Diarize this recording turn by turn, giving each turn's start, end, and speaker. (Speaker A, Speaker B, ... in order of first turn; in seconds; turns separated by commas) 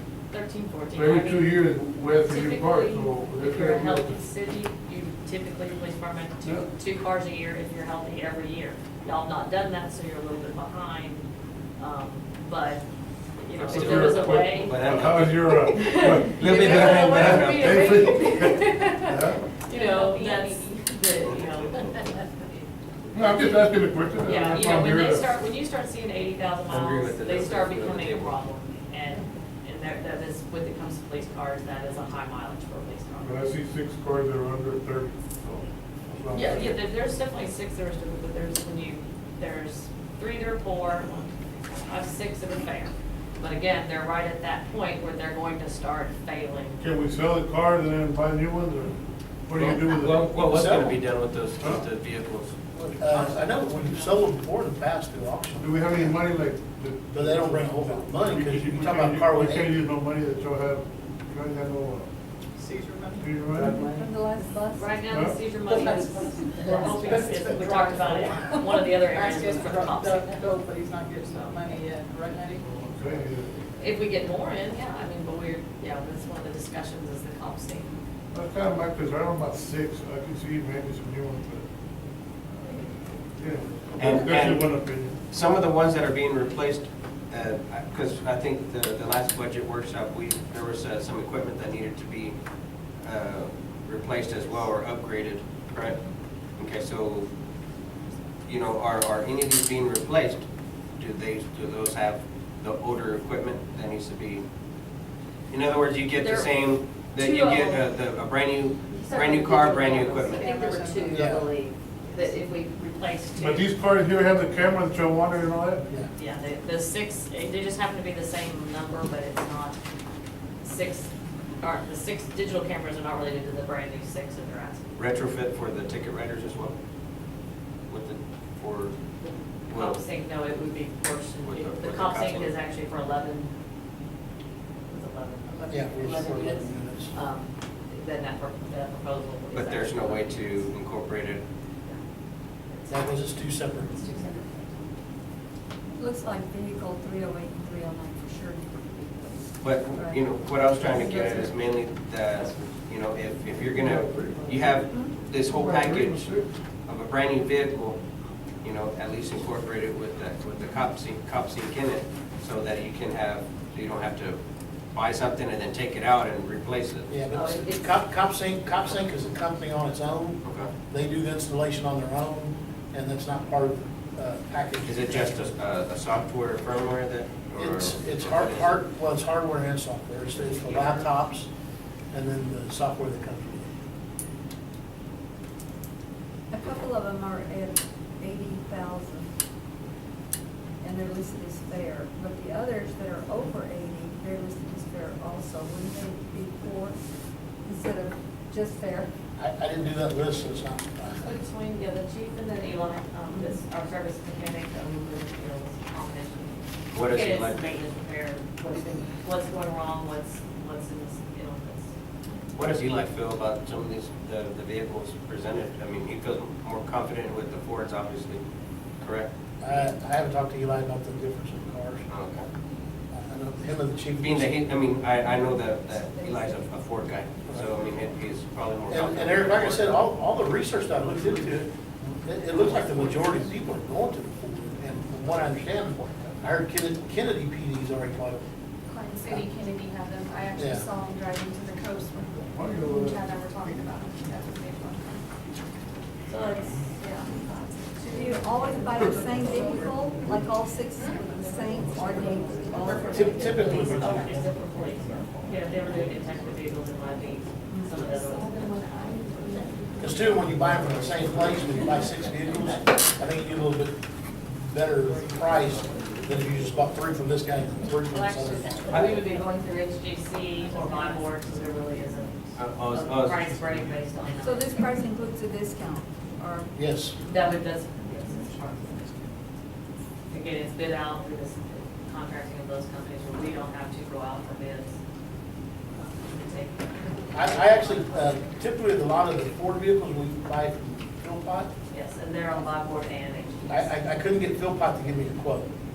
Speaker A: 0.3-1.5, Speaker B: 0.9-4.2, Speaker A: 2.1-12.8, Speaker A: 13.4-14.8, Speaker C: 13.6-18.1, Speaker B: 13.7-19.5, Speaker A: 15.7-22.2, Speaker D: 19.5-21.4, Speaker C: 21.2-22.0, Speaker B: 23.1-25.3, Speaker A: 24.2-33.3, Speaker C: 26.7-28.4, Speaker B: 33.2-36.8, Speaker A: 36.3-41.2, Speaker A: 41.8-46.8, Speaker B: 46.8-50.4, Speaker C: 49.5-52.5, Speaker E: 50.4-51.0, Speaker B: 51.6-51.8, Speaker E: 52.7-56.1, Speaker A: 53.1-54.2, Speaker B: 55.6-62.1, Speaker E: 57.1-59.7, Speaker F: 62.5-64.1, Speaker B: 63.2-63.8, Speaker G: 63.5-65.0, Speaker A: 64.7-70.5, Speaker B: 65.1-65.5, Speaker F: 65.6-73.3, Speaker A: 71.2-71.8, Speaker B: 72.6-73.5, Speaker A: 73.8-77.9, Speaker B: 78.3-81.7, Speaker B: 82.6-85.2, Speaker C: 84.0-92.3, Speaker C: 93.0-96.0, Speaker C: 96.6-97.3, Speaker C: 98.5-100.4, Speaker C: 101.0-104.4, Speaker C: 105.5-110.5, Speaker A: 106.2-106.5, Speaker A: 107.2-107.7, Speaker A: 109.0-113.7, Speaker F: 110.2-111.4, Speaker E: 111.1-111.5, Speaker B: 113.3-115.8, Speaker A: 116.2-119.8, Speaker A: 120.6-124.9, Speaker C: 124.9-126.8, Speaker C: 127.9-128.9, Speaker A: 129.2-133.5, Speaker C: 129.7-130.0, Speaker C: 131.4-132.5, Speaker A: 134.9-140.7, Speaker E: 135.7-137.1, Speaker C: 139.5-141.4, Speaker A: 142.7-144.8, Speaker E: 142.9-144.0, Speaker G: 145.9-150.3, Speaker C: 149.6-156.3, Speaker G: 150.8-151.5, Speaker B: 153.7-154.7, Speaker B: 155.3-156.5, Speaker C: 156.8-158.0, Speaker C: 158.6-164.4, Speaker C: 164.9-167.1, Speaker E: 167.1-175.3, Speaker A: 167.3-167.9, Speaker C: 170.4-170.7, Speaker C: 174.8-178.8, Speaker E: 177.6-181.5, Speaker C: 180.4-181.1, Speaker E: 182.1-183.7, Speaker G: 186.5-189.3, Speaker G: 190.8-197.0, Speaker G: 197.7-199.1, Speaker E: 199.3-201.2, Speaker A: 201.2-211.9, Speaker C: 206.9-207.7, Speaker C: 212.5-218.4, Speaker C: 219.0-219.8, Speaker E: 219.6-222.1, Speaker C: 222.1-222.5, Speaker E: 223.1-224.6, Speaker C: 224.2-230.0, Speaker G: 225.4-226.6, Speaker E: 228.9-231.7, Speaker E: 232.2-238.4, Speaker D: 238.8-245.2, Speaker E: 240.6-240.8, Speaker B: 242.5-243.2, Speaker A: 246.3-247.3, Speaker D: 247.9-248.4, Speaker G: 248.1-254.0, Speaker E: 253.0-254.2, Speaker A: 253.9-259.3, Speaker G: 257.7-258.0, Speaker D: 258.9-259.6, Speaker E: 260.0-269.0, Speaker A: 268.1-274.8, Speaker C: 272.6-274.0, Speaker G: 274.4-277.6, Speaker E: 276.8-277.1, Speaker A: 277.3-278.9, Speaker A: 280.3-285.0, Speaker A: 285.9-288.5, Speaker E: 287.3-291.7, Speaker A: 291.9-293.9, Speaker E: 293.7-295.7